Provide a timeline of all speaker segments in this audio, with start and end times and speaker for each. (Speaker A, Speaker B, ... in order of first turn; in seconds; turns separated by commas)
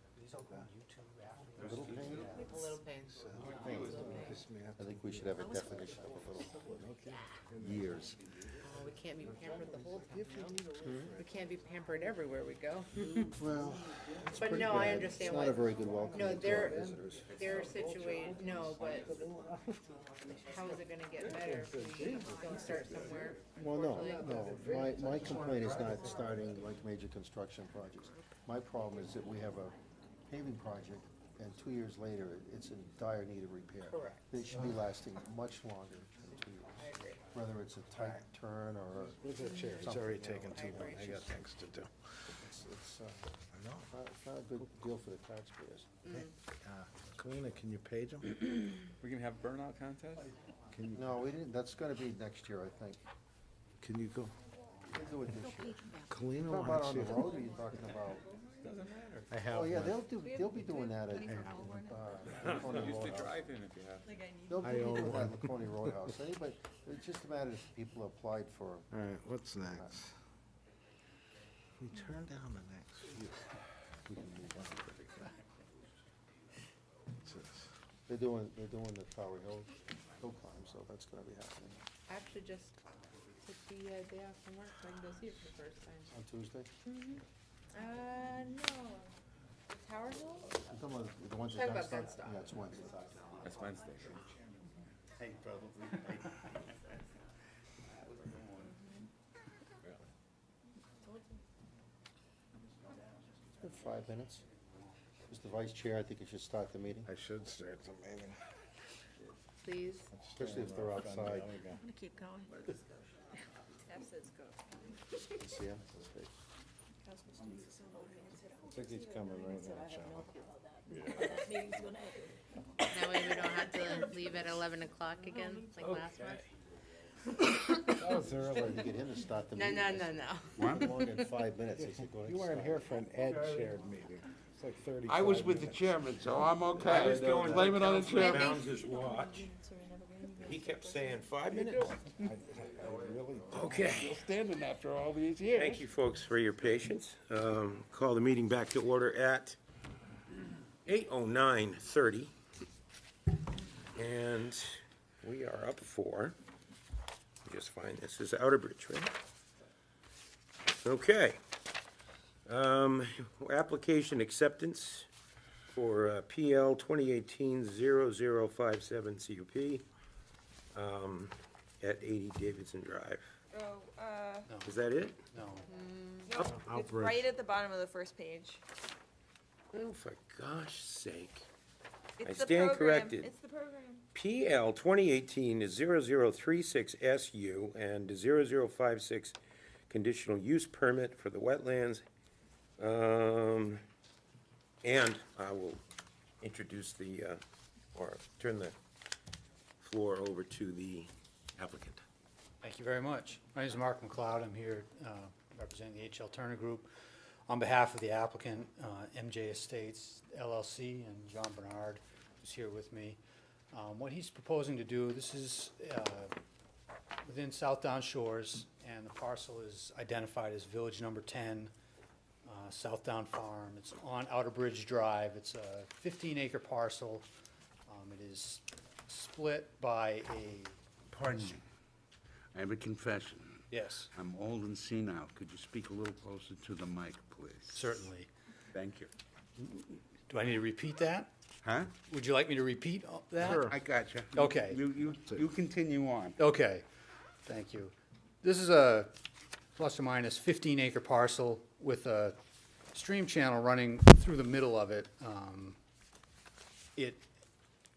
Speaker A: 0.1-2.5, Speaker B: 1.6-2.1, Speaker C: 1.6-2.3, Speaker D: 2.2-4.3, Speaker E: 3.0-5.9, Speaker B: 3.5-3.9, Speaker C: 3.6-6.8, Speaker E: 6.6-8.1, Speaker C: 7.6-8.2, Speaker D: 8.6-10.6, Speaker E: 9.2-11.3, Speaker C: 10.8-11.2, Speaker D: 11.2-13.3, Speaker C: 13.4-17.4, Speaker E: 13.4-19.8, Speaker D: 14.3-19.1, Speaker D: 20.5-25.9, Speaker E: 21.2-23.2, Speaker C: 23.5-29.7, Speaker E: 24.1-26.6, Speaker C: 30.3-39.2, Speaker D: 33.9-34.3, Speaker D: 36.8-37.2, Speaker E: 39.0-41.9, Speaker C: 39.8-41.0, Speaker D: 40.5-41.4, Speaker C: 42.3-43.3, Speaker E: 43.5-43.9, Speaker C: 43.9-45.9, Speaker E: 46.1-48.8, Speaker B: 49.0-50.3, Speaker E: 50.7-51.2, Speaker C: 50.9-53.0, Speaker E: 53.8-54.3, Speaker C: 54.9-55.8, Speaker E: 56.1-57.4, Speaker C: 56.4-58.2, Speaker B: 58.6-59.3, Speaker E: 59.3-60.1, Speaker C: 59.5-63.4, Speaker F: 60.2-62.0, Speaker E: 61.2-61.8, Speaker B: 62.3-64.2, Speaker F: 64.0-65.1, Speaker C: 64.5-68.9, Speaker E: 64.6-65.5, Speaker E: 68.9-70.1, Speaker C: 69.6-70.0, Speaker E: 71.8-73.4, Speaker E: 74.1-75.3, Speaker E: 77.2-77.7, Speaker C: 78.1-81.8, Speaker D: 82.1-82.8, Speaker D: 83.4-86.1, Speaker C: 86.1-86.7, Speaker D: 86.9-87.2, Speaker D: 87.7-89.1, Speaker D: 89.7-90.5, Speaker C: 90.7-92.9, Speaker D: 91.5-92.5, Speaker B: 93.4-94.2, Speaker B: 95.2-96.1, Speaker C: 103.6-104.4, Speaker C: 105.3-107.1, Speaker E: 107.1-108.4, Speaker D: 109.6-110.1, Speaker E: 110.1-111.8, Speaker C: 110.3-111.5, Speaker F: 111.8-112.6, Speaker F: 113.9-114.6, Speaker C: 115.4-116.3, Speaker F: 117.0-122.4, Speaker E: 118.7-120.3, Speaker D: 122.9-126.4, Speaker F: 125.3-125.8, Speaker D: 127.5-128.0, Speaker E: 128.0-128.8, Speaker C: 128.4-132.8, Speaker D: 129.5-131.2, Speaker G: 130.6-130.9, Speaker E: 131.8-135.9, Speaker G: 135.0-138.6, Speaker H: 136.7-139.5, Speaker F: 137.9-141.3, Speaker H: 140.4-141.9, Speaker E: 141.8-144.0, Speaker G: 143.0-145.8, Speaker H: 143.5-144.2, Speaker H: 145.5-149.6, Speaker H: 150.8-152.3, Speaker H: 153.9-156.3, Speaker H: 157.4-159.1, Speaker H: 160.8-161.4, Speaker H: 162.4-165.1, Speaker H: 165.7-169.8, Speaker H: 170.7-173.3, Speaker F: 173.5-174.5, Speaker A: 174.5-174.8, Speaker H: 174.6-175.2, Speaker A: 175.3-175.7, Speaker D: 175.7-176.3, Speaker F: 176.3-178.6, Speaker E: 176.5-177.2, Speaker H: 179.7-181.4, Speaker F: 182.2-184.0, Speaker H: 182.2-183.3, Speaker H: 184.1-189.4, Speaker H: 189.9-192.1, Speaker H: 192.8-193.8, Speaker H: 194.8-195.8, Speaker H: 196.4-197.4, Speaker H: 197.9-198.7, Speaker H: 199.8-202.0, Speaker A: 202.6-206.9, Speaker A: 207.5-213.2, Speaker A: 213.7-216.3, Speaker A: 217.2-221.7, Speaker A: 222.4-227.3, Speaker A: 227.9-230.8, Speaker G: 231.1-231.6, Speaker G: 232.5-238.1, Speaker A: 233.7-234.1, Speaker A: 237.7-238.3, Speaker G: 238.7-239.1, Speaker A: 239.6-241.3, Speaker G: 241.6-241.9, Speaker A: 242.0-243.7, Speaker G: 243.4-246.4, Speaker A: 244.3-244.8, Speaker A: 246.4-246.8, Speaker A: 247.4-249.1, Speaker A: 249.8-252.4, Speaker A: 252.9-255.8, Speaker A: 257.0-257.2